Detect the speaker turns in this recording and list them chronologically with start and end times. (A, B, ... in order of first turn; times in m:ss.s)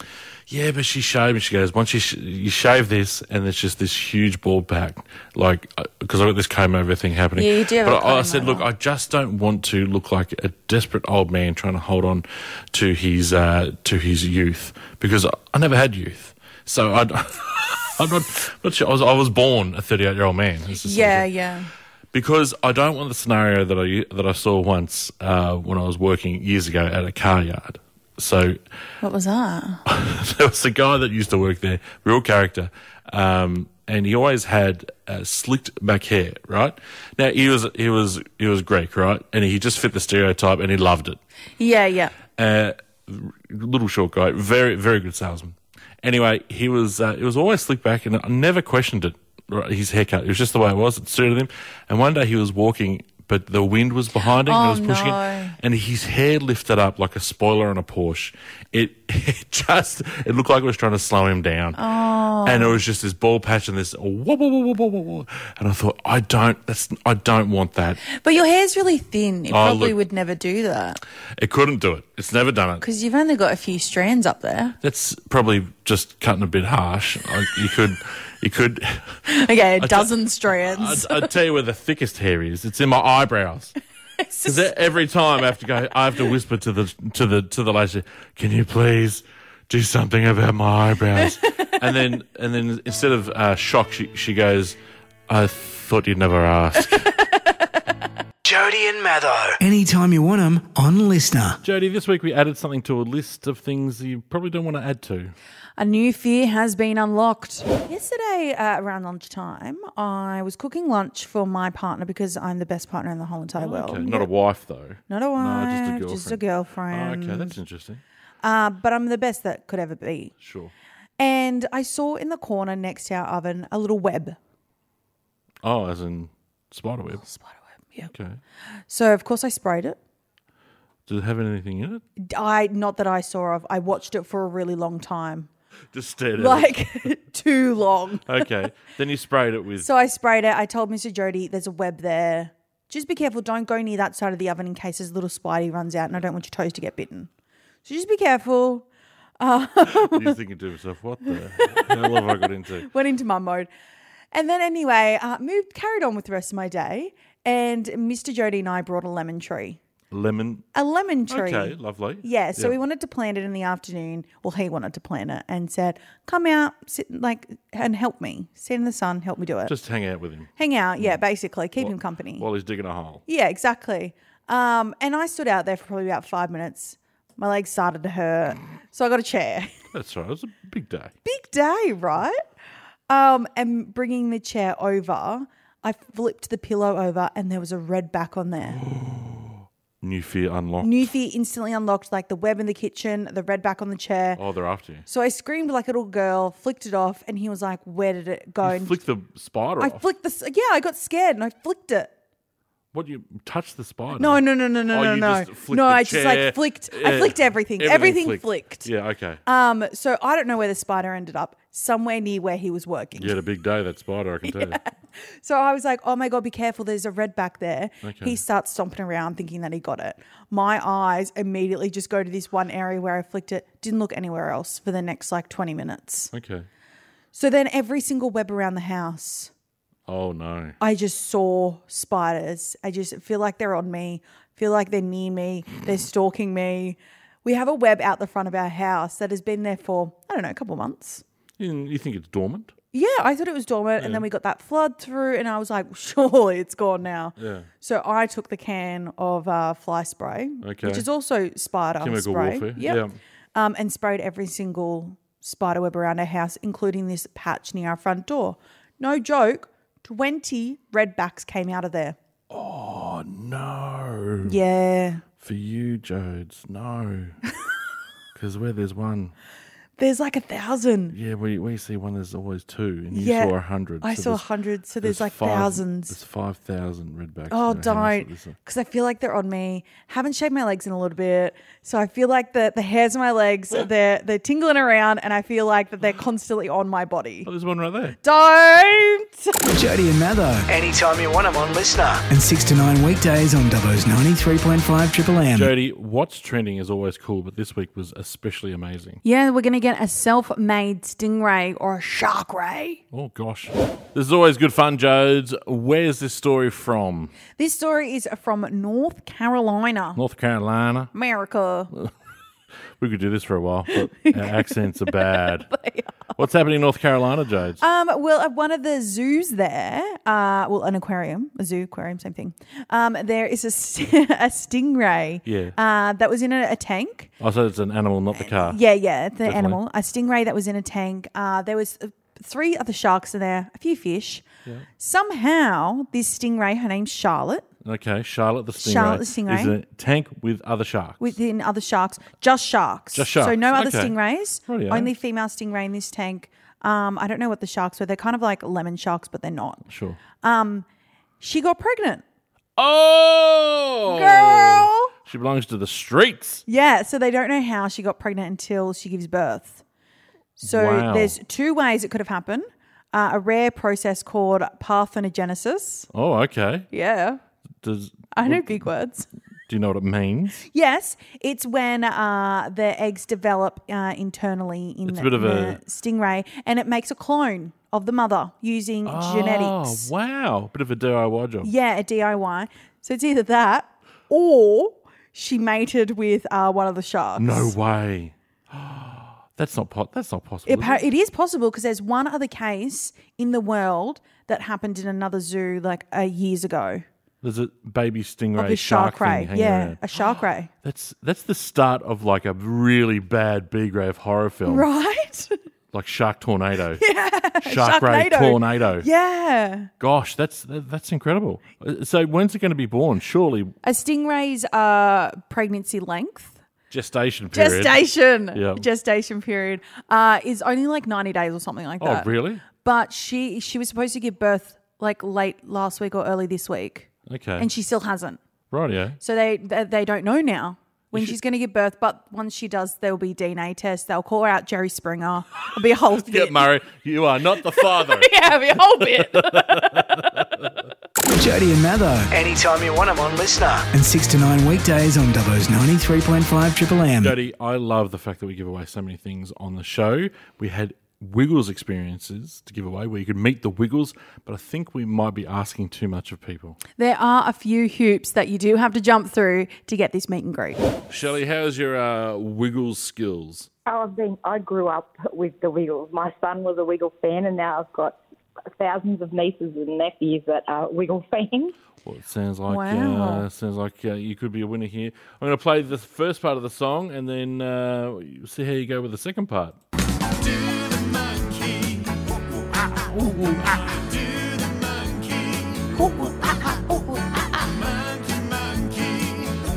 0:00.5-0:21.2 A
0:07.3-0:08.6 B
0:20.8-0:21.7 B
0:22.1-0:28.6 A
0:29.0-0:29.8 B
0:29.8-0:41.2 A
0:41.6-0:42.1 B
0:42.3-1:01.8 A
0:54.4-0:55.5 B
1:01.8-1:02.8 B
1:02.4-1:08.0 A
1:08.1-1:11.0 B
1:09.5-1:10.0 A
1:11.4-1:12.8 A
1:12.8-1:14.8 B
1:14.8-1:19.2 A
1:19.3-1:21.3 B
1:19.8-1:23.7 A
1:24.2-1:24.7 B
1:24.4-1:34.8 A
1:31.2-1:31.7 B
1:35.3-1:37.1 A
1:37.0-1:37.4 B
1:38.4-1:39.6 C
1:39.6-1:41.6 D
1:41.6-1:45.3 A
1:45.8-1:54.3 B
1:53.6-1:58.0 A
1:55.1-1:57.6 B
1:58.4-2:00.3 B
2:00.4-2:00.7 A
2:01.2-2:04.4 B
2:05.6-2:07.2 A
2:07.2-2:08.1 B
2:08.1-2:08.4 A
2:08.9-2:10.0 B
2:11.1-2:12.0 A
2:12.2-2:15.5 B
2:15.9-2:17.1 A
2:16.4-2:18.5 B
2:18.2-2:19.9 A
2:19.8-2:27.3 B
2:27.8-2:28.8 B
2:29.4-2:30.4 B
2:29.9-2:32.9 A
2:31.6-2:33.7 B
2:34.3-2:39.8 B
2:40.1-2:40.6 A
2:40.7-2:49.7 B
2:41.3-2:42.8 A
2:49.7-2:51.2 A
2:50.6-2:52.4 B
2:51.8-2:53.2 A
2:53.3-2:59.7 B
2:59.9-3:01.1 A
3:01.2-3:02.4 B
3:03.1-3:08.8 B
3:08.6-3:11.1 A
3:10.8-3:14.4 B
3:14.4-3:15.0 A
3:15.1-3:19.0 B
3:18.6-3:20.0 A
3:19.8-3:22.1 B
3:22.9-3:29.4 A
3:24.2-3:28.9 B
3:29.4-3:33.4 B
3:33.2-3:34.8 A
3:34.4-3:46.3 B
3:38.0-3:38.4 A
3:46.3-3:46.7 A
3:47.3-3:49.5 B
3:50.1-3:50.8 A
3:50.8-4:01.2 B
4:01.6-4:02.7 A
4:02.9-4:13.0 B
4:04.0-4:04.2 A
4:07.4-4:07.7 A
4:10.6-4:11.0 A
4:12.0-4:13.2 A
4:13.5-4:22.2 B
4:22.5-4:24.6 A
4:24.4-4:25.2 B
4:25.4-4:27.4 A
4:28.3-4:29.3 A
4:30.0-4:31.1 B
4:31.1-4:34.4 A
4:33.1-4:36.1 B
4:35.0-4:38.6 A
4:37.5-4:47.5 B
4:47.4-4:48.2 A
4:48.2-4:49.6 B
4:49.6-4:50.7 D
4:50.7-4:52.2 C
4:52.3-4:55.7 D
4:55.5-4:59.2 A
4:59.2-5:03.0 B
5:03.1-5:07.3 A
5:07.5-5:10.2 B
5:10.2-5:11.1 A
5:11.1-5:11.9 B
5:13.0-5:15.7 A
5:13.9-5:16.3 B
5:16.4-5:17.8 A
5:17.8-5:27.3 B
5:25.4-5:25.8 A
5:27.4-5:28.8 A
5:28.4-5:34.4 B
5:29.4-5:29.8 A
5:35.0-5:37.6 B
5:37.8-5:41.3 A
5:38.8-5:39.7 B
5:41.2-5:49.8 B
5:43.1-5:44.1 A
5:44.7-5:45.1 A
5:49.9-5:50.2 A
5:50.4-5:50.8 B
5:51.4-5:52.2 B
5:52.8-5:56.6 A
5:54.1-5:55.1 B
5:56.7-5:59.8 B
6:00.6-6:06.1 B
6:00.6-6:01.3 A
6:06.1-6:06.9 A
6:06.9-6:07.4 B
6:07.8-6:08.9 A
6:08.3-6:09.3 B
6:09.7-6:10.6 A
6:10.7-6:20.1 B
6:15.0-6:15.8 A
6:19.0-6:21.7 A
6:21.6-6:27.7 B
6:27.4-6:31.0 A
6:30.6-6:37.0 B
6:37.4-6:44.9 A
6:38.6-6:40.7 B
6:44.7-6:45.6 B
6:45.9-6:47.0 A
6:47.0-6:49.9 B
6:47.6-6:49.1 A
6:50.0-6:53.7 A
6:53.8-6:56.6 B
6:56.9-6:58.0 A
6:57.5-7:02.3 B
6:58.5-6:58.8 A
7:02.0-7:02.6 A
7:02.8-7:08.4 B
7:07.3-7:07.7 A
7:08.7-7:09.2 A
7:09.2-7:16.6 B
7:16.2-7:20.7 A
7:17.8-7:20.0 B
7:21.3-7:22.3 D
7:22.3-7:23.9 C
7:23.9-7:27.3 D
7:27.2-7:36.8 A
7:37.0-7:40.8 B
7:41.1-7:43.7 A
7:43.8-7:48.2 E
7:48.7-7:51.7 E
7:52.0-7:59.8 A
7:52.7-7:53.4 B
8:00.7-8:02.1 A
8:02.8-8:05.8 A
8:06.0-8:07.4 B
8:08.3-8:08.8 A